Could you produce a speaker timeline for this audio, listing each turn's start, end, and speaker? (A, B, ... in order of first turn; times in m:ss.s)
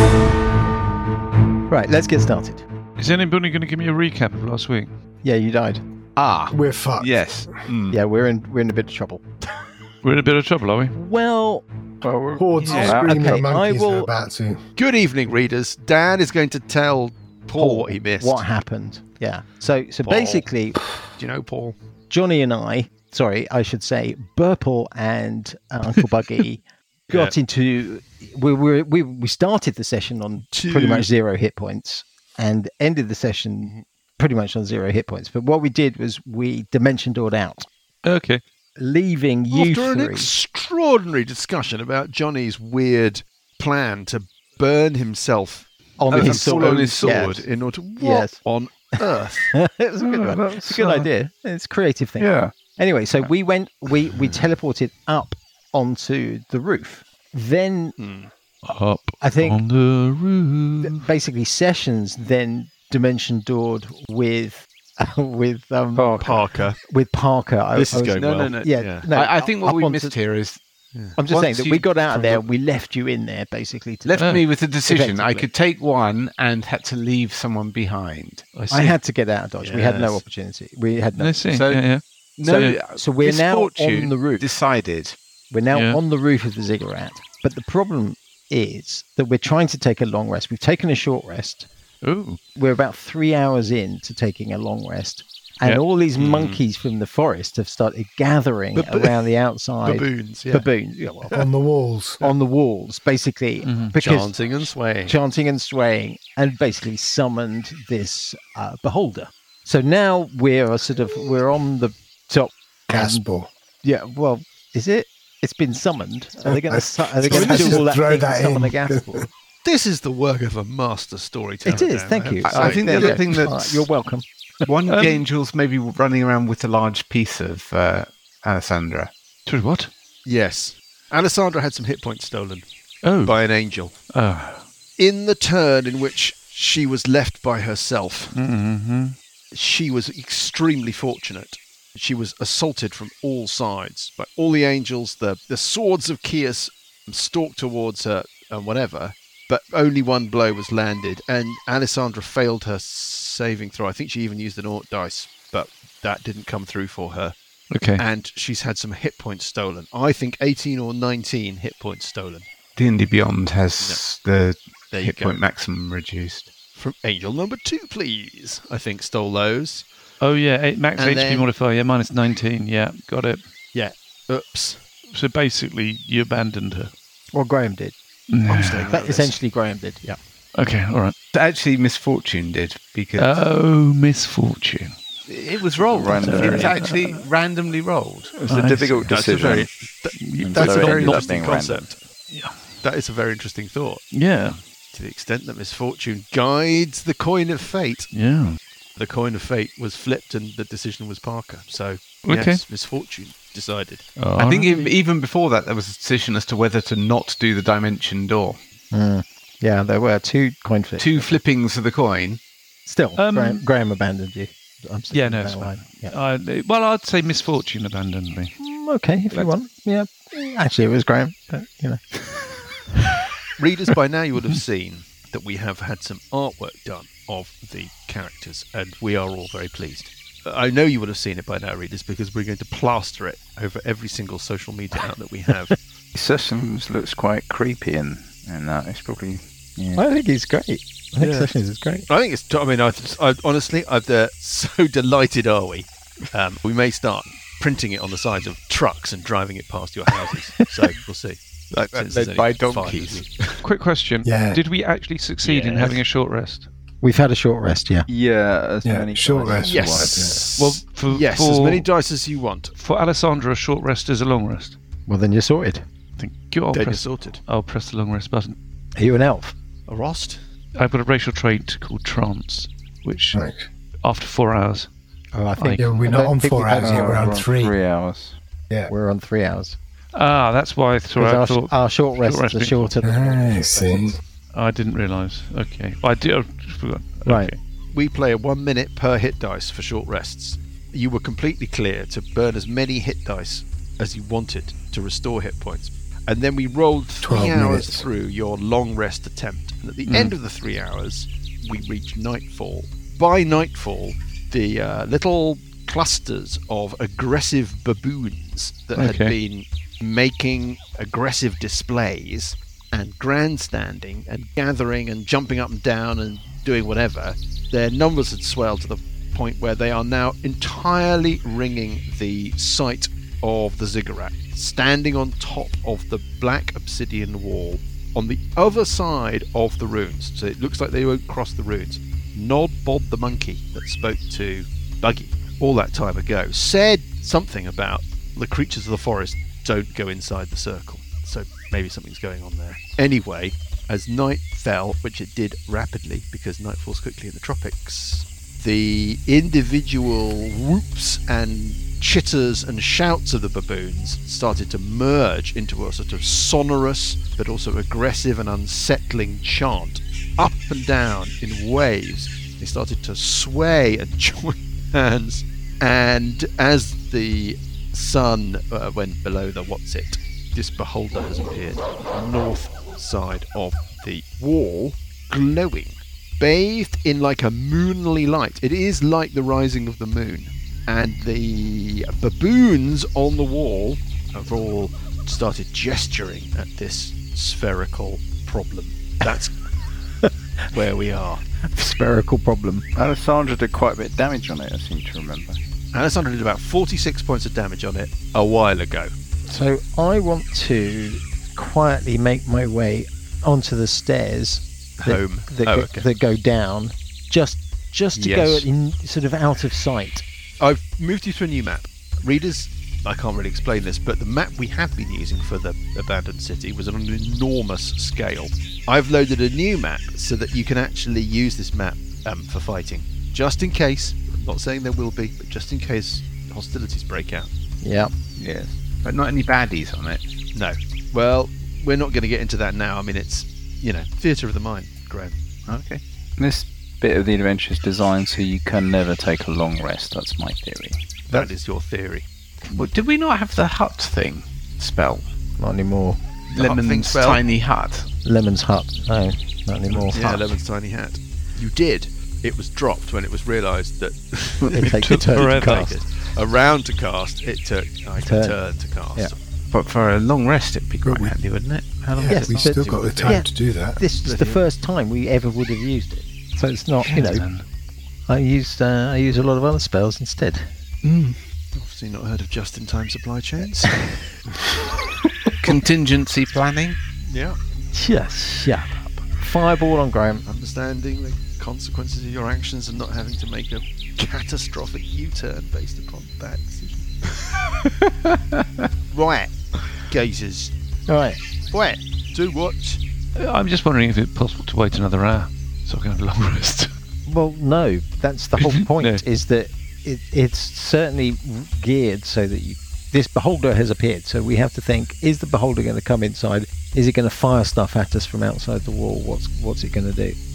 0:01.7-0:02.6 A
0:03.0-0:04.9 B
0:05.2-0:05.8 A
0:06.2-0:08.0 C
0:06.5-0:07.6 D
0:07.9-0:09.2 A
0:10.0-0:10.9 B
0:10.9-0:11.6 A
0:12.0-0:13.2 E
0:12.3-0:14.6 D
0:12.7-0:12.9 F
0:12.7-0:12.9 B
0:12.7-0:14.1 A
0:14.8-0:18.4 F
0:17.6-0:20.8 A
0:20.0-0:20.5 F
0:21.2-0:21.8 F
0:22.1-0:37.7 A
0:27.1-0:27.3 F
0:30.5-0:31.1 F
0:38.0-0:38.4 B
0:38.8-0:40.3 A
0:39.5-0:49.5 F
0:46.0-0:47.4 A
0:46.1-0:47.4 C
0:48.0-0:48.4 A
0:49.5-0:58.0 A
0:50.0-0:51.1 B
0:52.2-0:52.5 B
0:58.0-0:58.3 F
0:58.6-1:01.1 B
0:59.2-0:59.6 A
1:00.8-1:10.1 A
1:05.9-1:06.3 E
1:06.2-1:06.8 F
1:07.7-1:09.1 F
1:07.9-1:10.6 C
1:11.2-1:14.1 A
1:11.3-1:12.4 C
1:14.0-1:18.5 C
1:14.2-1:14.4 B
1:14.8-1:15.5 A
1:18.5-1:19.0 B
1:18.7-1:21.4 A
1:19.6-1:20.2 F
1:21.2-1:22.8 B
1:21.5-1:21.8 C
1:22.4-1:25.2 C
1:22.4-1:24.4 A
1:25.5-1:31.7 A
1:25.7-1:26.0 B
1:32.0-1:32.4 B
1:32.6-1:41.4 A
1:36.2-1:36.6 F
1:38.7-1:39.3 F
1:39.8-1:40.7 F
1:41.3-1:42.2 D
1:42.2-1:53.2 A
1:43.6-1:44.0 B
1:44.0-1:45.2 F
1:52.9-1:53.5 D
1:53.8-1:59.3 A
1:56.4-1:59.3 D
1:57.3-1:57.8 F
1:59.6-2:03.2 F
2:01.6-2:04.6 A
2:02.4-2:03.9 C
2:04.6-2:09.1 C
2:04.8-2:05.2 B
2:09.4-2:09.9 B
2:10.2-2:12.6 F
2:13.0-2:13.4 B
2:13.2-2:14.0 F
2:14.1-2:14.7 B
2:15.0-2:18.3 F
2:18.3-2:19.2 B
2:19.5-2:37.4 F
2:37.7-2:38.0 B
2:38.0-2:42.5 F
2:42.8-2:46.5 C
2:43.8-2:44.0 F
2:44.9-2:45.4 F
2:46.7-2:49.9 F
2:50.2-2:53.4 B
2:50.9-2:51.5 F
2:53.7-2:54.8 F
2:55.0-2:56.9 B
2:57.3-2:58.0 A
2:58.3-2:58.9 B
2:58.5-2:59.4 F
2:58.9-3:00.0 A
3:00.5-3:01.1 B
3:01.3-3:03.4 C
3:03.2-3:05.0 B
3:05.3-3:08.4 C
3:05.9-3:06.7 E
3:06.2-3:07.2 B
3:06.3-3:06.6 F
3:08.3-3:09.1 B
3:08.5-3:09.7 E
3:09.1-3:12.0 F
3:10.2-3:11.4 B
3:10.4-3:11.8 E
3:12.3-3:12.8 B
3:12.8-3:14.1 F
3:14.1-3:14.6 B
3:14.9-3:18.1 F
3:18.1-3:18.6 B
3:19.0-3:24.1 F
3:22.2-3:22.6 B
3:24.2-3:24.9 B
3:24.4-3:28.6 C
3:28.9-3:31.4 A
3:31.0-3:32.4 C
3:32.8-3:36.2 A
3:33.2-3:33.6 B
3:35.1-3:38.5 B
3:38.6-3:42.0 A
3:43.6-3:55.7 F
3:56.1-4:00.0 E
3:59.9-4:02.1 A
4:01.2-4:01.5 F
4:02.1-4:13.3 F
4:11.7-4:13.6 C
4:13.6-4:16.7 B
4:14.2-4:14.6 D
4:15.4-4:16.0 F
4:17.0-4:18.1 A
4:18.1-4:20.3 E
4:18.8-4:20.4 D
4:19.6-4:22.7 F
4:20.6-4:21.9 B
4:22.8-4:24.8 B
4:25.1-4:25.8 A
4:26.2-4:28.6 B
4:26.7-4:27.4 F
4:29.0-4:29.6 A
4:29.9-4:30.4 F
4:30.8-4:33.4 B
4:33.3-4:33.7 D
4:34.0-4:34.9 B
4:35.3-4:37.4 A
4:35.6-4:36.0 B
4:35.7-4:37.8 D
4:36.8-4:38.4 E
4:38.9-4:39.8 A
4:40.1-4:42.9 B
4:41.2-4:44.2 A
4:43.0-4:44.2 D
4:44.5-4:47.6 B
4:47.2-4:47.5 A
4:47.9-6:29.5 F
4:57.2-4:58.0 D
5:00.0-5:00.4 B
5:08.9-5:09.4 B
6:30.2-6:30.7 A
6:30.7-6:31.4 F
6:31.6-6:32.9 A
6:32.9-6:35.6 E
6:35.9-6:39.1 F
6:39.5-6:50.2 A
6:45.0-6:46.0 F
6:48.2-6:48.7 F
6:50.6-7:07.5 F
7:07.8-7:08.1 A
7:08.4-7:08.7 E
7:09.0-7:10.3 C
7:10.5-7:15.4 F
7:15.7-7:16.0 C
7:16.4-7:21.0 E
7:21.3-7:22.2 F
7:22.6-7:25.3 C
7:25.6-7:26.2 A
7:26.5-7:28.1 C
7:26.5-7:27.4 F
7:28.2-7:30.2 A
7:30.1-7:39.4 F
7:30.1-7:30.5 C
7:34.7-7:36.0 A
7:35.2-7:35.9 B
7:38.2-7:38.6 A
7:39.7-7:43.3 C
7:41.0-7:41.3 D
7:42.1-7:44.0 D
7:42.2-7:47.4 A
7:42.8-7:43.3 F
7:44.2-7:44.6 F
7:47.1-7:47.6 B
7:48.3-7:50.7 A
7:51.0-7:51.4 C
7:51.7-7:54.0 F
7:53.9-7:54.2 A
7:55.6-7:57.0 C
7:57.2-7:57.6 F
7:57.9-8:00.4 A
8:00.4-8:07.0 F
8:07.8-8:08.9 C
8:09.1-8:10.7 F
8:11.1-8:11.4 A
8:11.7-8:13.0 F
8:13.3-8:16.9 B
8:17.2-8:30.4 A
8:18.6-8:19.2 B